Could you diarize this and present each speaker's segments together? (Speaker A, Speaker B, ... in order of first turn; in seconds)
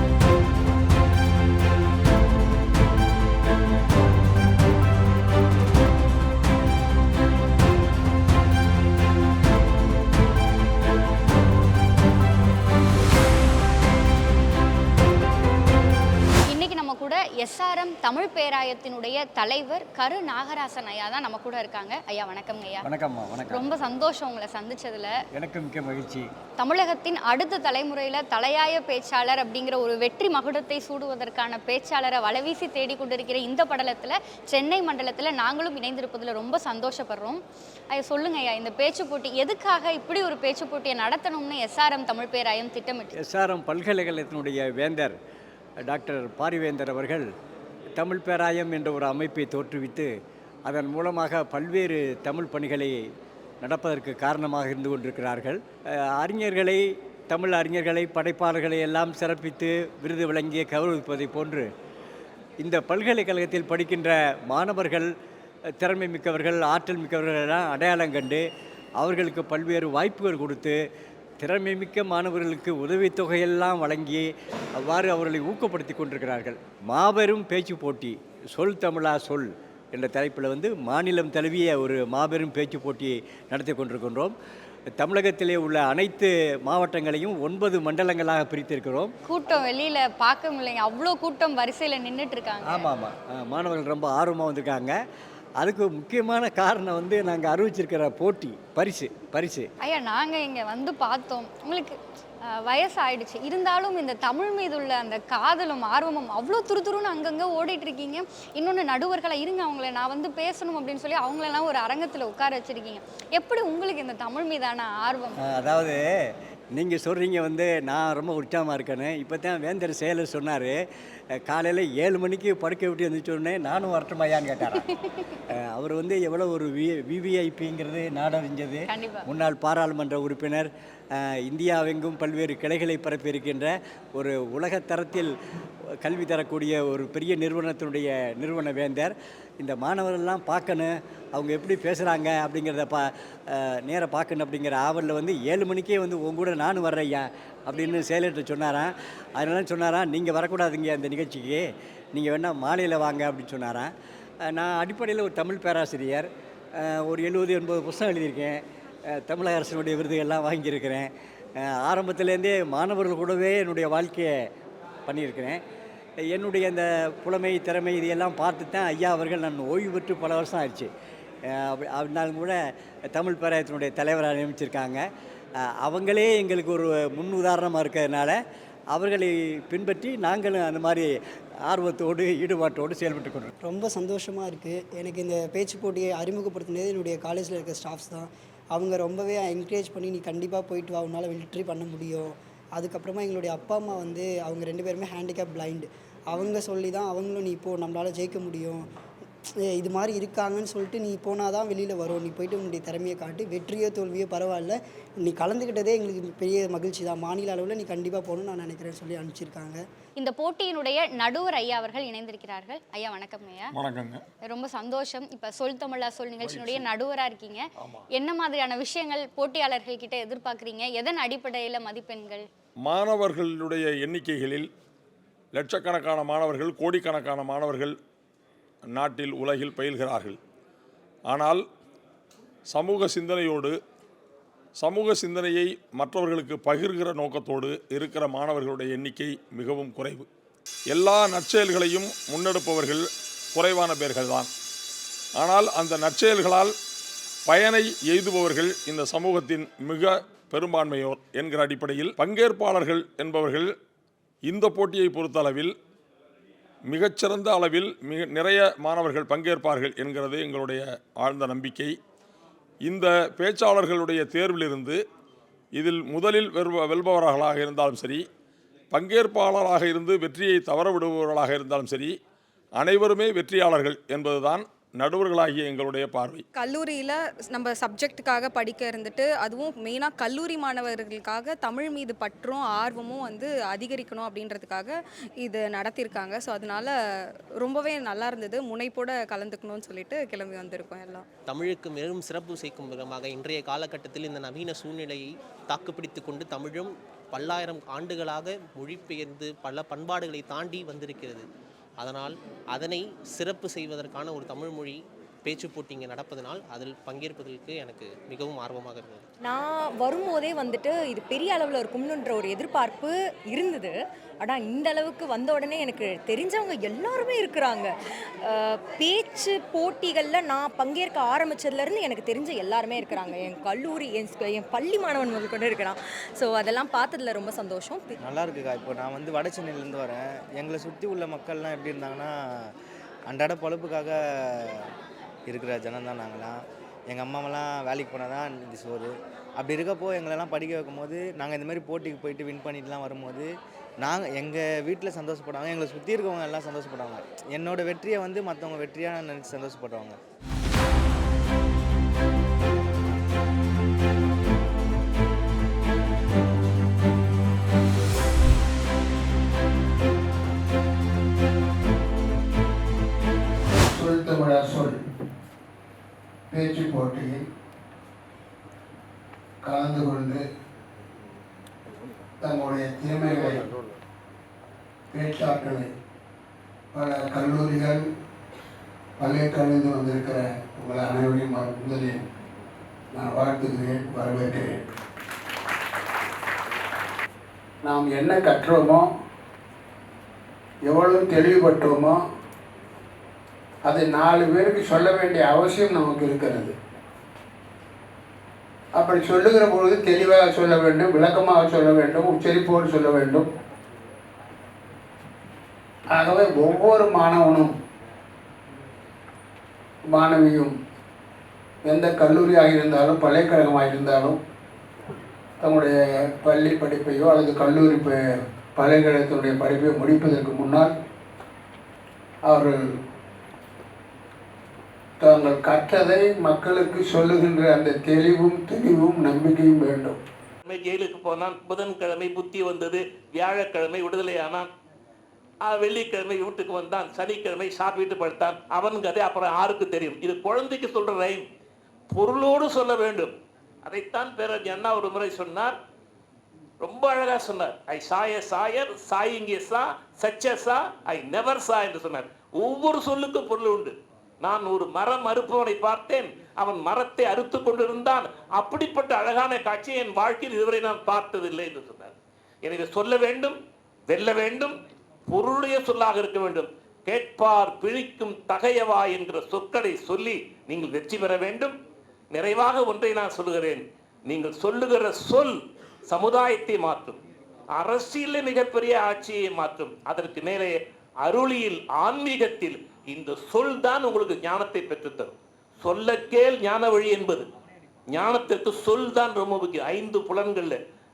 Speaker A: 16.5-22.9, 23.5-25.2, 26.6-37.4, 37.9-43.1, 89.2-92.9, 99.8-115.4, 124.8-125.2, 128.9-129.2, 210.2-213.7, 214.4-222.4
Speaker B: 22.8-23.7, 25.3-26.3, 43.2-45.1, 45.8-47.3, 48.0-50.1, 50.6-53.1, 53.6-61.7, 62.6-65.1, 65.7-68.5, 69.0-70.8, 71.4-84.3, 85.0-89.1, 92.7-95.0, 95.6-99.7, 115.4-120.8, 121.3-124.8, 125.5-135.3, 135.9-153.9, 154.4-164.5, 165.1-165.6, 166.2-170.9, 171.4-175.0, 175.6-178.4, 178.9-181.1, 181.7-183.5
Speaker C: 183.6-198.9, 199.6-209.8
Speaker D: 213.7-214.2, 216.4-216.9, 217.8-218.0, 222.8-224.7, 225.5-228.0, 228.9-230.4, 231.3-231.6, 232.7-233.8, 234.8-240.3, 240.9-244.5, 245.4-246.7, 247.5-253.7, 254.5-255.7, 256.9-261.9, 262.9-265.0, 265.7-268.2, 268.9-272.1, 272.8-276.4
Speaker E: 276.6-286.9, 287.6-291.2
Speaker F: 291.5-301.5, 302.0-309.2
Speaker G: 310.0-313.9, 314.4-317.9, 319.0-327.7
Speaker H: 328.1-332.7, 333.3-334.9, 335.5-350.2
Speaker I: 363.9-365.0, 366.5-367.5, 369.6-370.4, 372.4-373.6, 375.1-375.9, 376.9-378.0, 379.2-382.2, 383.1-384.7, 387.8-389.0, 390.9-392.2, 393.9-396.7, 398.9-403.5, 406.1-407.7, 410.1-410.7, 411.8-414.4, 415.6-418.2, 418.8-420.9, 422.5-422.8, 425.2-430.2
Speaker J: 430.6-434.7, 435.6-441.4, 442.1-445.7, 446.8-462.1, 462.6-463.6, 464.1-464.8, 465.3-471.7, 472.3-477.2, 477.7-487.4, 488.1-490.8